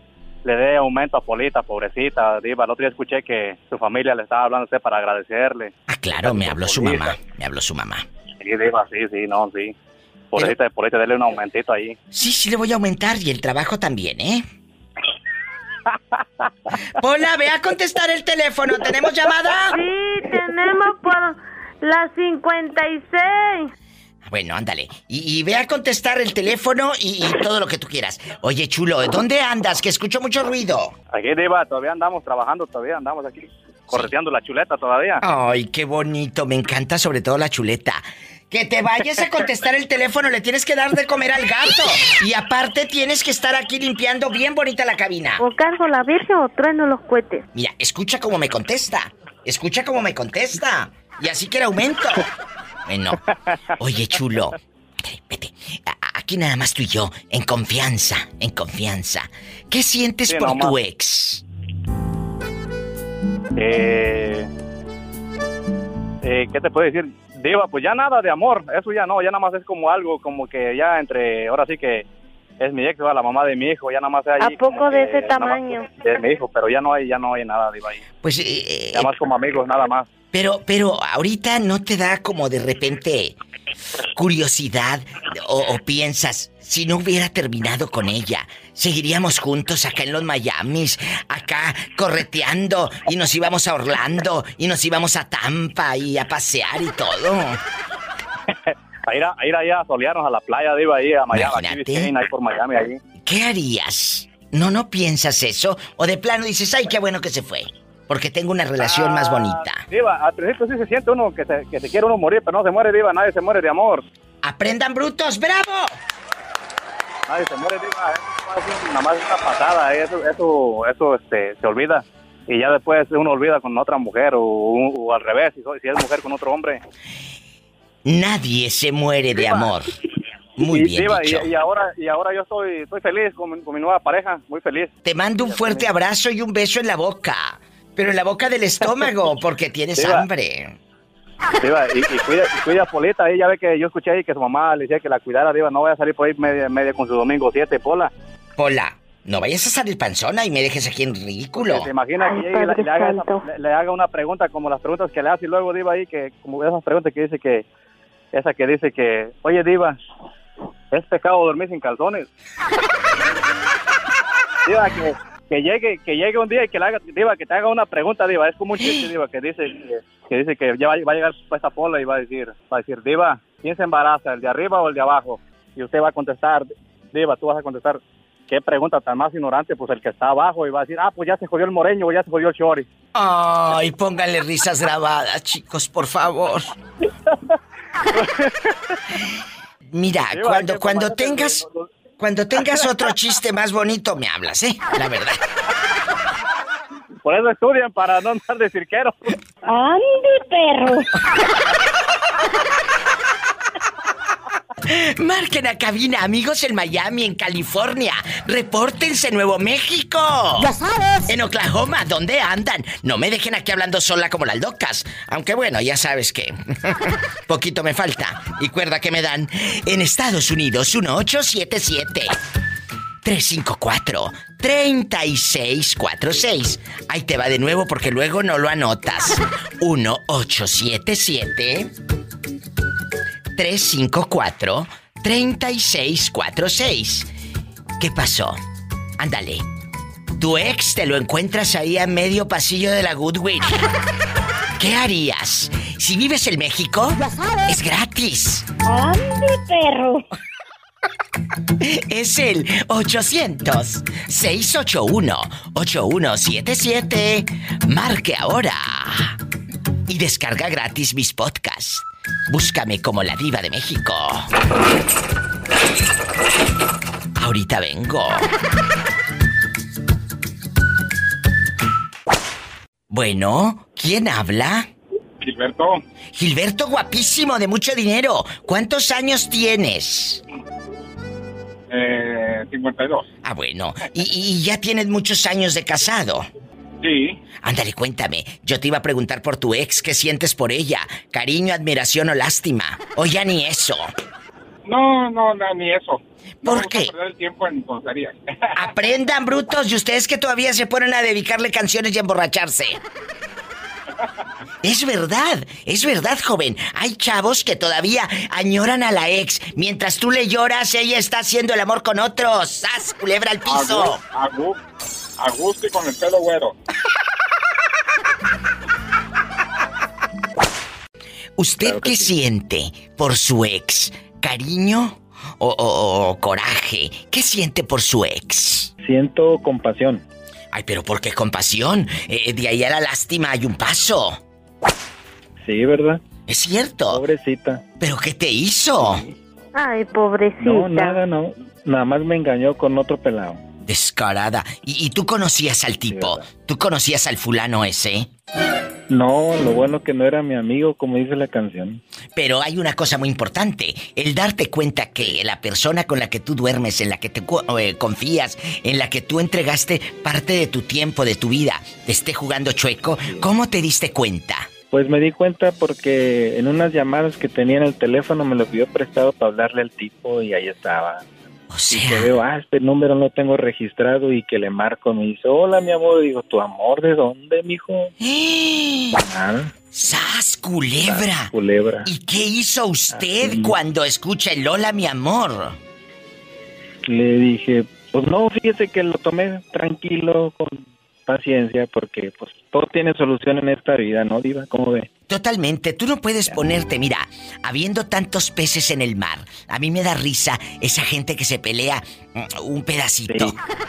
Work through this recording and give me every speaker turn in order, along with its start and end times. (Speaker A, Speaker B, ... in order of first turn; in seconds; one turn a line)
Speaker A: 0.4-7.2
Speaker B: 5.9-8.1
Speaker A: 8.4-9.7
Speaker A: 10.3-12.0
Speaker B: 12.1-14.4
Speaker B: 17.0-19.8
Speaker C: 19.7-23.7
Speaker B: 24.2-30.9
Speaker A: 31.1-35.2
Speaker B: 35.2-45.4
Speaker C: 45.4-47.5
Speaker B: 47.5-52.3
Speaker B: 52.9-53.2
Speaker B: 53.8-61.4
Speaker A: 60.3-60.8
Speaker A: 63.6-64.5
Speaker A: 66.2-72.1
Speaker A: 72.6-78.0
Speaker C: 74.4-76.0
Speaker B: 78.2-79.1
Speaker A: 78.9-80.1
Speaker B: 80.3-83.4
Speaker B: 84.1-97.6
Speaker A: 98.7-103.0
Speaker B: 101.3-102.1
Speaker B: 103.2-109.9
Speaker A: 108.8-114.0
Speaker B: 114.4-116.0
Speaker A: 117.3-126.8
Speaker B: 128.1-129.9
Speaker A: 129.4-129.7
Speaker B: 130.6-131.5
Speaker A: 130.6-135.9
Speaker B: 135.0-140.8
Speaker A: 140.0-140.3
Speaker A: 141.6-148.1
Speaker B: 148.6-151.9
Speaker A: 151.6-157.7
Speaker C: 152.2-153.4
Speaker A: 158.3-160.0
Speaker A: 160.9-162.3
Speaker A: 164.7-182.9
Speaker B: 183.1-186.7
Speaker A: 188.1-188.7
Speaker B: 189.9-191.6
Speaker A: 190.3-191.9
Speaker B: 192.2-195.4
Speaker A: 192.6-192.9
Speaker A: 197.2-199.3
Speaker D: 199.7-201.1
Speaker B: 204.9-210.8
Speaker B: 211.3-222.4
Speaker B: 223.2-231.9
Speaker B: 233.6-237.3
Speaker B: 238.0-238.6
Speaker B: 239.2-239.7
Speaker B: 240.4-243.8
Speaker B: 244.8-248.7
Speaker D: 248.9-250.2
Speaker B: 251.8-259.4
Speaker B: 260.1-264.5
Speaker B: 267.4-268.5
Speaker B: 273.1-274.9
Speaker E: 275.4-276.0
Speaker B: 276.3-280.4
Speaker E: 281.9-283.2
Speaker B: 283.4-286.5
Speaker E: 287.0-287.4
Speaker B: 287.6-294.1
Speaker E: 294.9-298.8
Speaker B: 296.6-297.1
Speaker B: 298.8-303.0
Speaker B: 304.8-314.2
Speaker E: 313.7-314.8
Speaker E: 315.4-316.7
Speaker B: 321.6-328.9
Speaker F: 321.8-322.3
Speaker F: 329.0-330.2
Speaker B: 330.7-334.4
Speaker F: 335.6-336.2
Speaker B: 336.5-337.2
Speaker F: 337.1-337.9
Speaker B: 338.0-339.2
Speaker F: 339.0-339.3
Speaker C: 339.8-341.2
Speaker F: 340.6-343.6
Speaker B: 343.9-348.3
Speaker F: 346.1-346.5
Speaker F: 349.1-352.0
Speaker B: 352.4-364.7
Speaker F: 364.9-371.3
Speaker B: 371.7-372.3
Speaker F: 371.9-378.1
Speaker B: 378.2-379.2
Speaker F: 379.1-379.8
Speaker B: 379.9-381.5
Speaker F: 381.0-382.1
Speaker B: 382.1-385.8
Speaker F: 383.1-383.8
Speaker F: 387.1-395.1
Speaker B: 395.3-403.6
Speaker F: 403.3-403.6